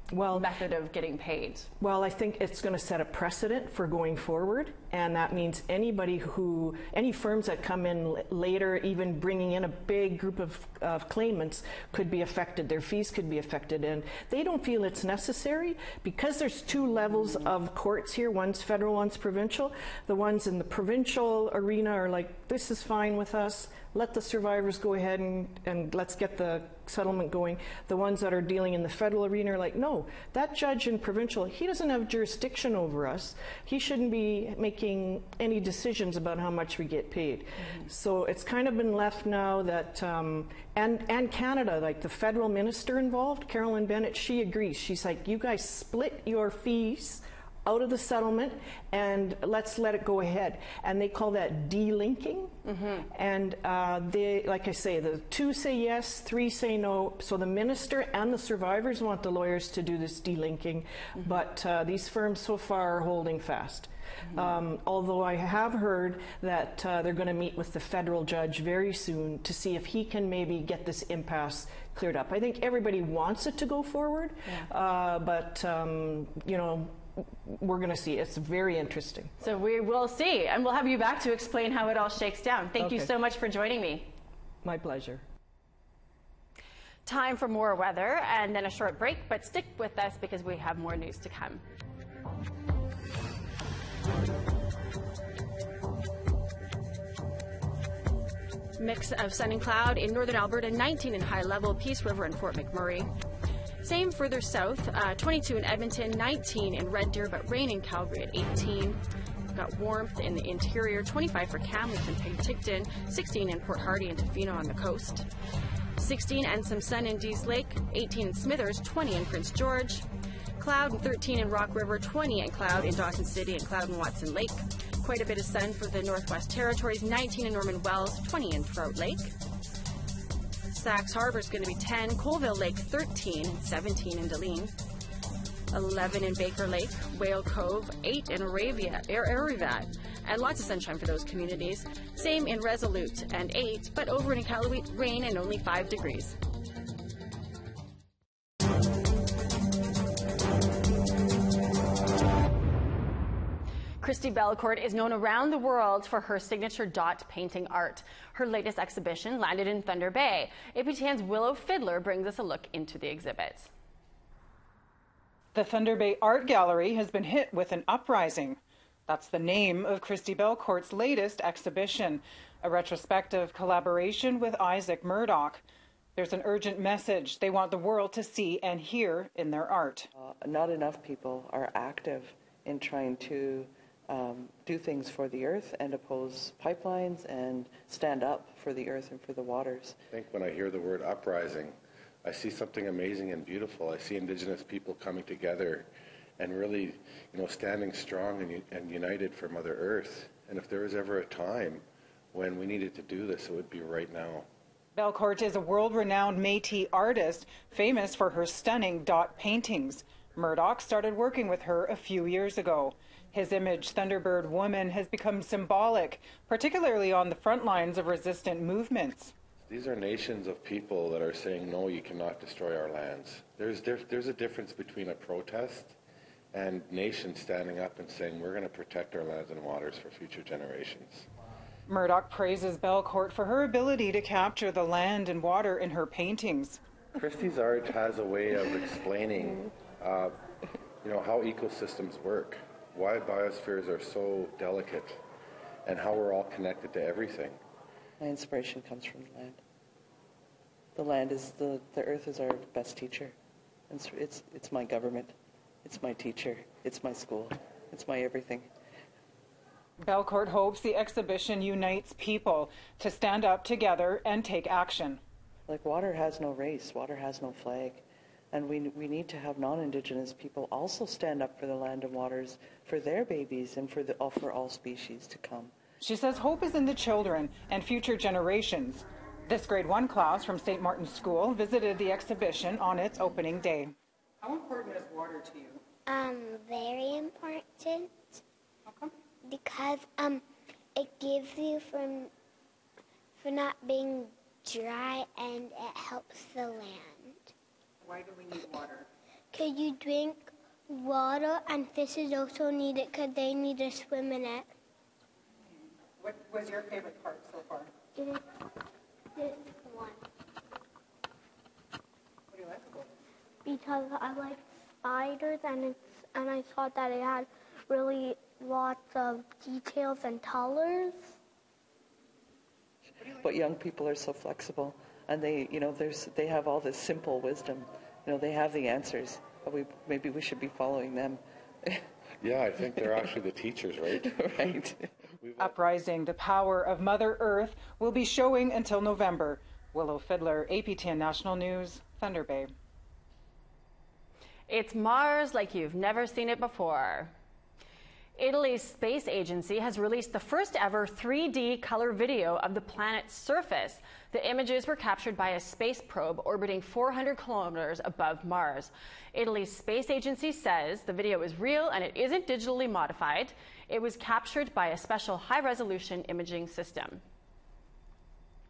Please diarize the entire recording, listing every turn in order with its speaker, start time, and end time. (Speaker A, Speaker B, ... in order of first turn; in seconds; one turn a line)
Speaker A: 0.1-0.5
Speaker B: 0.3-1.7
Speaker A: 1.8-79.3
Speaker B: 52.7-53.0
Speaker B: 79.4-84.1
Speaker A: 82.8-83.1
Speaker A: 84.6-85.2
Speaker B: 87.0-91.6
Speaker B: 98.8-103.1
Speaker B: 103.8-109.0
Speaker B: 109.5-115.3
Speaker B: 116.0-120.0
Speaker B: 120.6-129.3
Speaker B: 130.7-134.7
Speaker B: 135.7-146.4
Speaker B: 154.0-163.7
Speaker C: 165.5-175.6
Speaker C: 176.2-180.1
Speaker D: 180.1-190.0
Speaker E: 190.1-195.9
Speaker E: 196.4-204.4
Speaker C: 204.9-219.3
Speaker E: 219.7-225.9
Speaker E: 226.5-231.3
Speaker C: 231.9-236.8
Speaker E: 237.2-240.4
Speaker E: 241.0-245.2
Speaker E: 245.8-247.6
Speaker D: 248.2-249.6
Speaker D: 250.9-253.3
Speaker D: 253.9-258.7
Speaker C: 260.0-265.2
Speaker D: 265.7-275.7
Speaker C: 276.0-285.8
Speaker F: 286.1-288.4
Speaker F: 289.4-290.4
Speaker F: 290.9-292.3
Speaker F: 293.4-297.5
Speaker C: 298.0-299.1
Speaker F: 299.5-304.7
Speaker C: 306.2-307.9
Speaker F: 308.1-308.4
Speaker F: 309.4-310.2
Speaker C: 312.5-313.1
Speaker F: 313.6-321.3
Speaker D: 323.2-332.0
Speaker E: 332.4-334.8
Speaker D: 334.2-335.1
Speaker E: 335.4-335.8
Speaker C: 335.6-342.7
Speaker B: 344.7-347.3
Speaker B: 348.4-367.2